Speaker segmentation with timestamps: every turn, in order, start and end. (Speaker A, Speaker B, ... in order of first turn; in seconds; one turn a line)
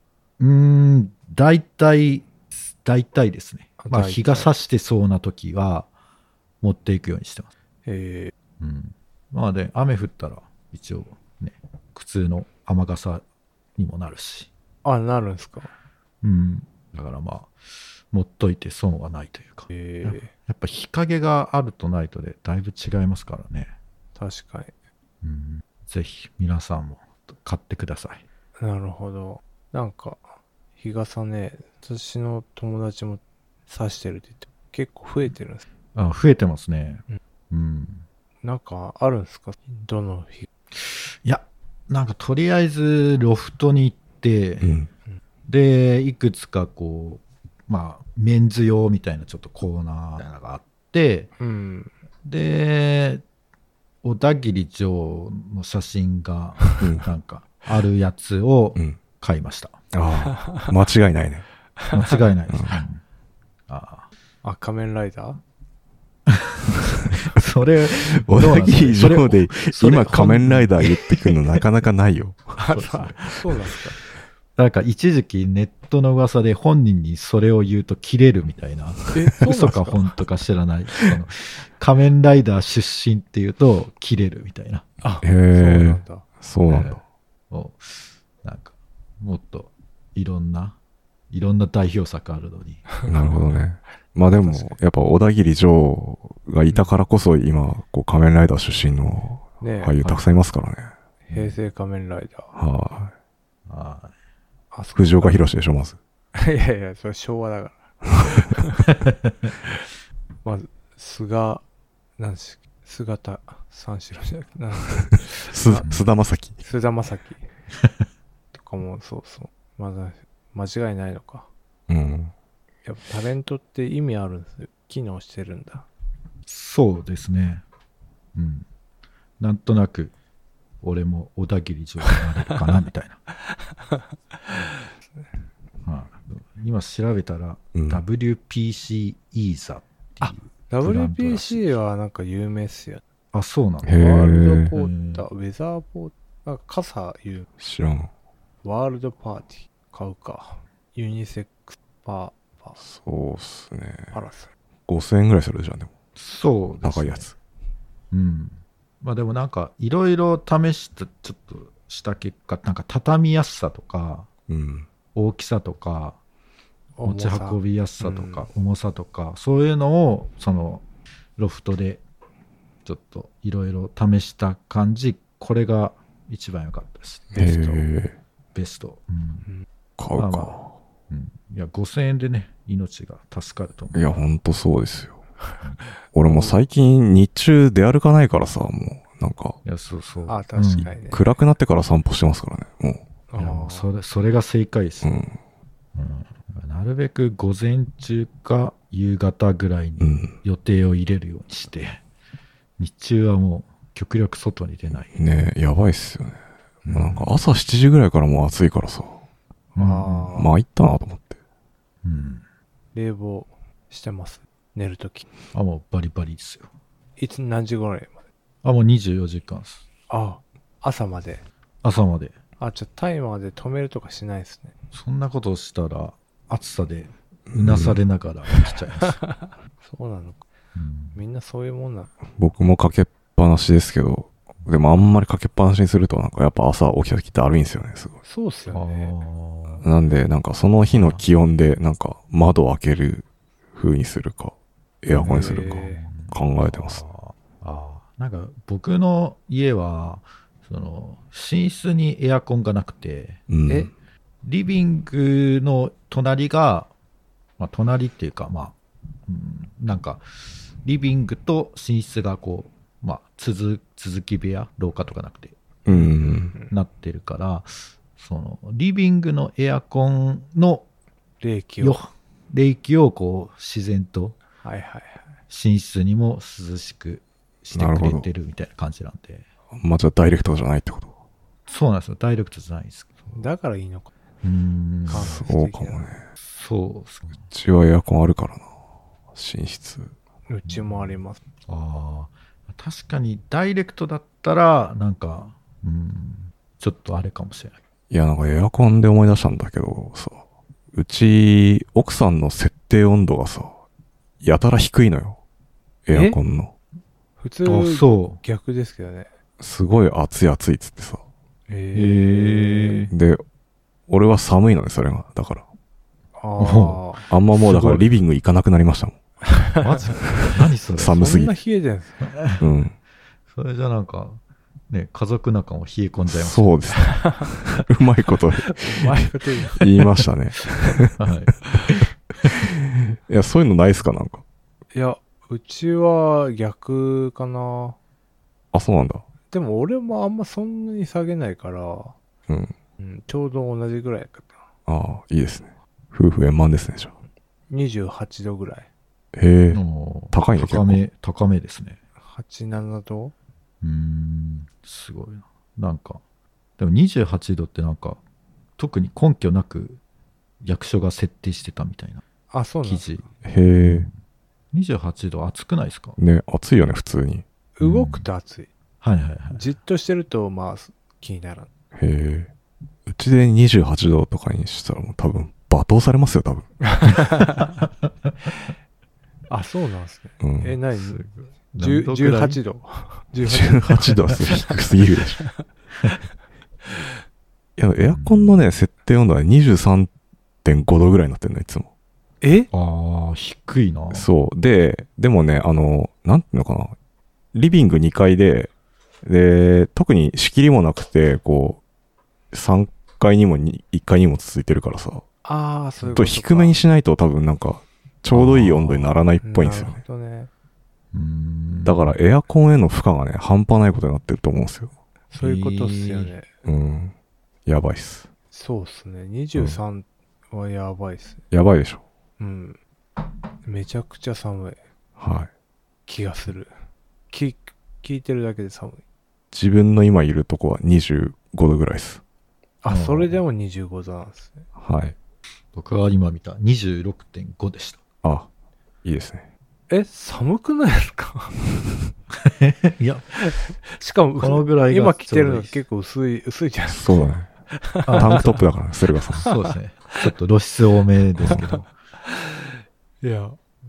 Speaker A: 0.4-5.9
Speaker B: 3.8-4.5
Speaker A: 6.6-7.5
Speaker B: 7.8-8.3
Speaker A: 8.6-13.2
Speaker A: 13.8-14.5
Speaker B: 14.8-15.7
Speaker A: 16.2-17.5
Speaker A: 18.1-23.7
Speaker B: 19.7-20.3
Speaker B: 24.2-24.7
Speaker A: 25.2-28.2
Speaker B: 28.6-35.7
Speaker A: 35.9-38.0
Speaker B: 38.4-40.5
Speaker A: 40.8-44.7
Speaker C: 44.6-44.9
Speaker A: 45.5-51.3
Speaker B: 51.4-51.9
Speaker A: 52.2-53.2
Speaker A: 54.0-59.8
Speaker C: 56.8-57.0
Speaker C: 59.9-61.5
Speaker A: 61.9-63.0
Speaker C: 62.5-62.8
Speaker A: 63.7-64.1
Speaker B: 64.4-65.4
Speaker A: 66.3-71.6
Speaker C: 67.9-72.6
Speaker B: 72.6-74.0
Speaker A: 72.7-73.2
Speaker A: 74.6-84.9
Speaker B: 79.1-80.2
Speaker B: 85.0-86.3
Speaker C: 85.2-87.0
Speaker A: 86.7-90.8
Speaker A: 91.3-92.9
Speaker B: 93.0-93.4
Speaker C: 93.0-100.9
Speaker B: 94.3-94.8
Speaker B: 99.6-100.2
Speaker B: 101.3-102.5
Speaker A: 101.3-101.6
Speaker C: 102.5-103.1
Speaker A: 103.7-104.1
Speaker B: 104.7-105.4
Speaker C: 105.0-106.0
Speaker B: 106.3-108.9
Speaker A: 109.1-109.5
Speaker B: 110.4-111.6
Speaker B: 112.2-116.0
Speaker C: 115.0-116.6
Speaker A: 115.8-116.0
Speaker B: 116.6-117.5
Speaker B: 118.5-121.5
Speaker C: 121.9-122.3
Speaker B: 122.8-125.9
Speaker A: 126.5-127.6
Speaker A: 128.3-128.7
Speaker A: 129.4-130.1
Speaker A: 130.8-133.2
Speaker B: 133.9-134.6
Speaker A: 135.8-141.7
Speaker C: 137.8-138.0
Speaker B: 140.2-143.0
Speaker A: 143.3-145.3
Speaker C: 143.8-144.7
Speaker B: 144.0-147.5
Speaker C: 147.6-148.1
Speaker B: 148.6-152.8
Speaker C: 152.8-154.2
Speaker B: 154.1-154.5
Speaker C: 154.9-155.9
Speaker A: 156.2-157.3
Speaker C: 156.8-157.4
Speaker A: 158.1-164.3
Speaker C: 164.5-164.9
Speaker A: 165.2-166.2
Speaker B: 167.0-168.5
Speaker A: 167.0-170.9
Speaker A: 171.4-172.0
Speaker A: 172.8-177.8
Speaker C: 177.3-178.2
Speaker A: 178.5-179.5
Speaker C: 180.0-180.7
Speaker A: 180.2-180.6
Speaker A: 181.1-184.3
Speaker C: 183.9-185.2
Speaker C: 186.1-189.6
Speaker B: 186.3-186.6
Speaker A: 189.7-190.9
Speaker B: 190.3-191.2
Speaker C: 190.8-193.1
Speaker B: 193.3-193.9
Speaker A: 193.4-195.1
Speaker C: 195.0-195.4
Speaker A: 195.9-202.0
Speaker C: 200.0-200.4
Speaker A: 202.8-205.2
Speaker C: 205.2-209.2
Speaker A: 206.9-207.3
Speaker B: 209.8-210.5
Speaker A: 209.8-210.3
Speaker C: 210.3-211.4
Speaker A: 212.0-212.4
Speaker B: 212.9-215.3
Speaker A: 215.5-216.7
Speaker B: 217.2-218.2
Speaker A: 218.6-219.8
Speaker B: 220.1-221.4
Speaker A: 221.8-222.4
Speaker B: 222.6-224.7
Speaker A: 224.9-229.2
Speaker C: 227.5-228.0
Speaker B: 229.2-230.4
Speaker A: 230.8-231.2
Speaker B: 231.2-232.1
Speaker C: 232.4-238.2
Speaker B: 238.2-239.1
Speaker A: 238.7-239.8
Speaker C: 239.8-247.0
Speaker A: 240.9-241.2
Speaker A: 245.1-253.4
Speaker B: 245.2-246.0
Speaker C: 253.5-253.9
Speaker A: 254.4-256.9
Speaker A: 257.6-260.2
Speaker A: 260.8-265.6
Speaker C: 265.9-266.5
Speaker B: 265.9-266.7
Speaker A: 266.6-270.9
Speaker B: 271.4-272.0
Speaker A: 271.8-274.4
Speaker B: 274.6-275.3
Speaker A: 275.5-279.5
Speaker C: 277.7-278.3
Speaker C: 279.8-281.1
Speaker A: 281.7-283.4
Speaker B: 283.3-284.1
Speaker A: 284.4-285.4
Speaker B: 285.1-286.1
Speaker C: 285.1-286.2
Speaker A: 286.4-287.4
Speaker C: 287.5-288.7
Speaker C: 289.3-290.1
Speaker B: 290.5-291.4
Speaker A: 290.6-297.8
Speaker C: 298.1-303.8
Speaker C: 304.4-305.4
Speaker C: 306.1-306.7
Speaker B: 306.1-306.4
Speaker B: 307.4-309.3
Speaker A: 307.6-308.4
Speaker C: 309.6-311.2
Speaker B: 311.7-313.1
Speaker C: 312.0-313.4
Speaker A: 312.0-313.1
Speaker C: 314.1-315.7
Speaker B: 316.4-317.3
Speaker A: 316.6-317.0
Speaker C: 317.3-319.2
Speaker A: 317.5-318.1
Speaker B: 319.4-320.2
Speaker A: 319.8-321.3
Speaker C: 321.0-321.6
Speaker B: 321.2-322.3
Speaker A: 322.2-322.6
Speaker C: 322.6-323.0
Speaker A: 323.5-326.9
Speaker C: 326.3-329.2
Speaker B: 326.9-327.5
Speaker B: 328.6-329.9
Speaker C: 329.8-331.2
Speaker A: 331.2-332.6
Speaker C: 332.4-334.4
Speaker B: 334.9-338.0
Speaker C: 338.7-339.3
Speaker B: 339.5-342.2
Speaker C: 342.5-342.7
Speaker B: 343.0-344.6
Speaker C: 344.9-347.2
Speaker B: 347.7-348.9
Speaker C: 349.4-351.0
Speaker A: 349.7-352.0
Speaker B: 352.2-353.3
Speaker A: 353.8-356.2
Speaker A: 356.8-358.2
Speaker A: 358.8-360.0
Speaker A: 360.6-362.2
Speaker B: 362.5-363.1
Speaker A: 362.8-363.3
Speaker C: 363.4-364.1
Speaker A: 363.8-364.1
Speaker A: 364.7-366.2
Speaker C: 366.2-367.4
Speaker B: 367.8-368.7
Speaker A: 367.8-368.3
Speaker A: 369.0-369.6
Speaker B: 369.5-371.7
Speaker C: 371.9-372.5
Speaker C: 373.1-376.7
Speaker B: 376.8-377.8
Speaker B: 379.5-381.2
Speaker C: 380.4-380.8
Speaker A: 381.0-382.6
Speaker B: 381.8-384.6
Speaker C: 383.5-385.4
Speaker C: 387.8-390.1
Speaker A: 388.0-388.6
Speaker C: 390.6-391.9
Speaker B: 392.4-392.7
Speaker A: 392.7-394.3
Speaker C: 394.1-397.0
Speaker C: 397.5-398.7
Speaker C: 399.2-401.8
Speaker C: 402.5-405.3
Speaker B: 405.4-406.8
Speaker C: 406.0-410.0
Speaker A: 408.3-409.1
Speaker B: 409.4-410.5
Speaker A: 411.1-412.2
Speaker C: 411.9-414.9
Speaker B: 415.3-416.5
Speaker A: 415.4-416.3
Speaker C: 416.6-417.1
Speaker C: 417.7-418.3
Speaker B: 418.5-421.4
Speaker C: 419.6-419.8
Speaker C: 421.5-422.0
Speaker B: 422.4-422.8
Speaker B: 423.6-424.8
Speaker C: 425.2-425.5
Speaker B: 426.1-426.7
Speaker B: 427.3-429.0
Speaker C: 429.5-432.2
Speaker B: 432.8-434.7
Speaker A: 432.9-433.4
Speaker C: 434.8-435.1
Speaker A: 435.7-438.0
Speaker C: 438.2-438.5
Speaker C: 439.0-439.5
Speaker B: 439.9-441.6
Speaker A: 442.4-443.3
Speaker B: 443.4-448.6
Speaker A: 444.4-445.8
Speaker C: 446.9-447.5
Speaker A: 448.1-448.5
Speaker C: 448.2-449.5
Speaker A: 449.4-451.9
Speaker B: 449.4-450.3
Speaker C: 451.4-451.7
Speaker B: 451.5-453.6